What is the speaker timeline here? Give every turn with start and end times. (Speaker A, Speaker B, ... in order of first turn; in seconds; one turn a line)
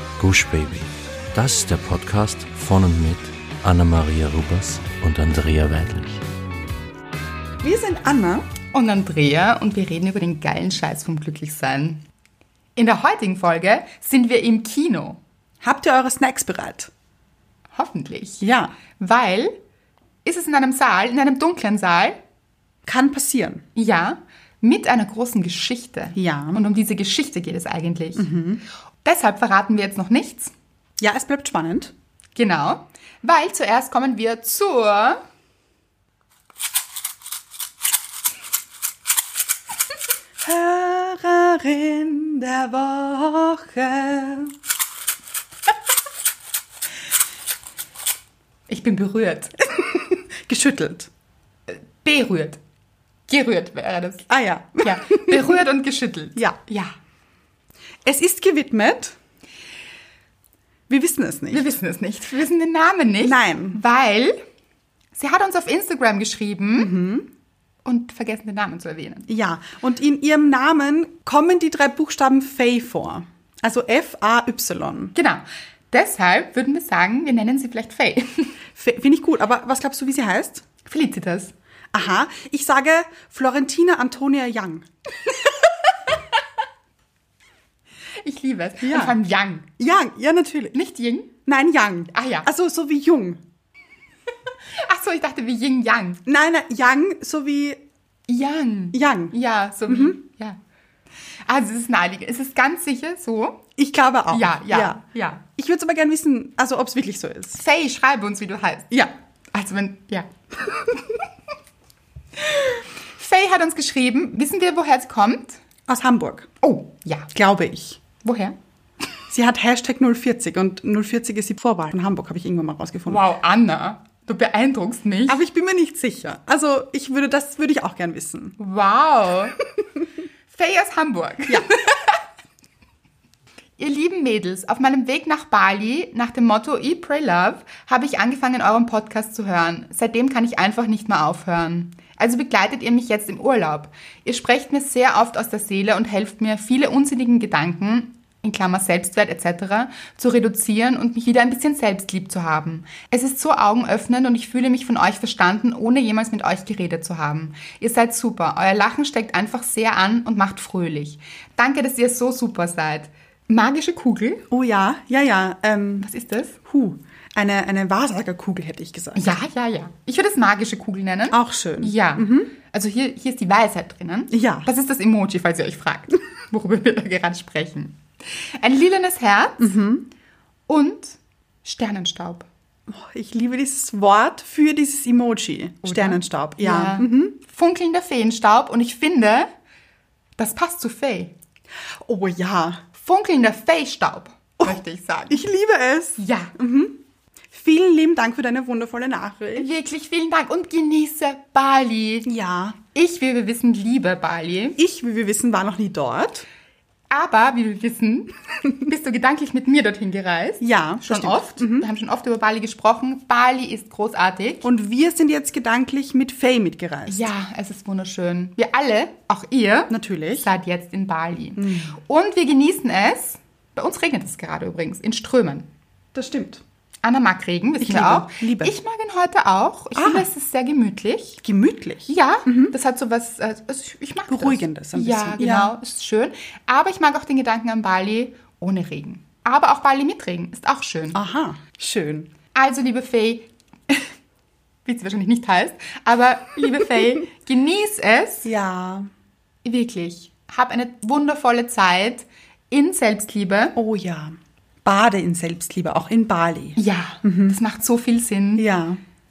Speaker A: 0.2-6.2
Speaker B: 7.6-8.5
Speaker C: 8.7-12.0
Speaker C: 12.8-15.2
Speaker B: 15.6-16.9
Speaker C: 17.7-18.4
Speaker B: 18.4-18.7
Speaker C: 19.0-19.6
Speaker C: 20.2-22.2
Speaker B: 22.9-23.6
Speaker C: 23.8-28.3
Speaker B: 26.2-26.6
Speaker B: 28.2-28.6
Speaker C: 29.0-30.5
Speaker B: 31.0-31.9
Speaker C: 32.4-35.2
Speaker B: 40.4-44.5
Speaker C: 48.7-49.6
Speaker B: 49.7-51.1
Speaker C: 51.7-52.6
Speaker C: 53.3-54.3
Speaker B: 54.3-55.6
Speaker C: 54.8-56.9
Speaker B: 58.0-59.2
Speaker B: 60.9-61.7
Speaker C: 61.5-64.4
Speaker B: 63.2-63.8
Speaker C: 65.2-66.9
Speaker B: 66.8-67.3
Speaker C: 67.8-69.3
Speaker B: 69.3-75.1
Speaker C: 75.1-78.5
Speaker B: 78.8-80.6
Speaker C: 80.9-81.5
Speaker B: 81.9-84.9
Speaker C: 85.3-85.5
Speaker C: 88.2-89.7
Speaker B: 88.8-89.2
Speaker B: 89.8-90.8
Speaker C: 90.7-91.3
Speaker B: 91.5-93.4
Speaker C: 92.1-92.5
Speaker C: 94.8-96.2
Speaker B: 96.3-97.8
Speaker C: 98.3-100.6
Speaker B: 98.9-99.3
Speaker B: 99.9-100.2
Speaker C: 101.5-103.7
Speaker B: 103.8-105.0
Speaker C: 104.3-105.4
Speaker B: 105.6-107.6
Speaker C: 107.6-111.1
Speaker C: 112.4-115.6
Speaker B: 115.9-116.5
Speaker C: 116.6-117.3
Speaker B: 117.3-118.0
Speaker C: 118.2-118.5
Speaker B: 119.3-123.2
Speaker C: 123.1-125.4
Speaker B: 125.3-128.6
Speaker C: 128.6-129.6
Speaker C: 130.5-132.2
Speaker C: 133.8-164.5
Speaker B: 164.5-166.1
Speaker C: 166.0-166.6
Speaker B: 166.7-169.4
Speaker C: 169.2-179.8
Speaker B: 171.3-172.5
Speaker B: 174.3-174.7
Speaker B: 179.6-180.1
Speaker C: 180.7-182.5
Speaker B: 182.9-187.3
Speaker C: 185.8-189.5
Speaker C: 190.4-191.3
Speaker B: 192.0-192.8
Speaker C: 192.9-195.5
Speaker B: 195.3-197.0
Speaker C: 196.2-196.6
Speaker B: 197.5-199.7
Speaker C: 199.6-202.3
Speaker B: 202.2-202.8
Speaker C: 202.9-204.8
Speaker B: 204.8-206.5
Speaker C: 207.1-214.7
Speaker B: 210.6-211.9
Speaker B: 214.6-217.3
Speaker C: 217.1-225.7
Speaker B: 219.9-220.5
Speaker B: 221.6-222.0
Speaker B: 226.2-226.6
Speaker C: 227.0-231.4
Speaker B: 227.8-228.8
Speaker B: 230.0-230.3
Speaker B: 231.4-232.7
Speaker C: 232.1-241.2
Speaker B: 234.3-235.7
Speaker B: 241.1-242.3
Speaker C: 242.5-244.1
Speaker C: 244.8-248.5
Speaker B: 248.4-249.1
Speaker C: 249.7-253.8
Speaker B: 253.8-257.6
Speaker C: 256.8-258.6
Speaker B: 258.6-259.0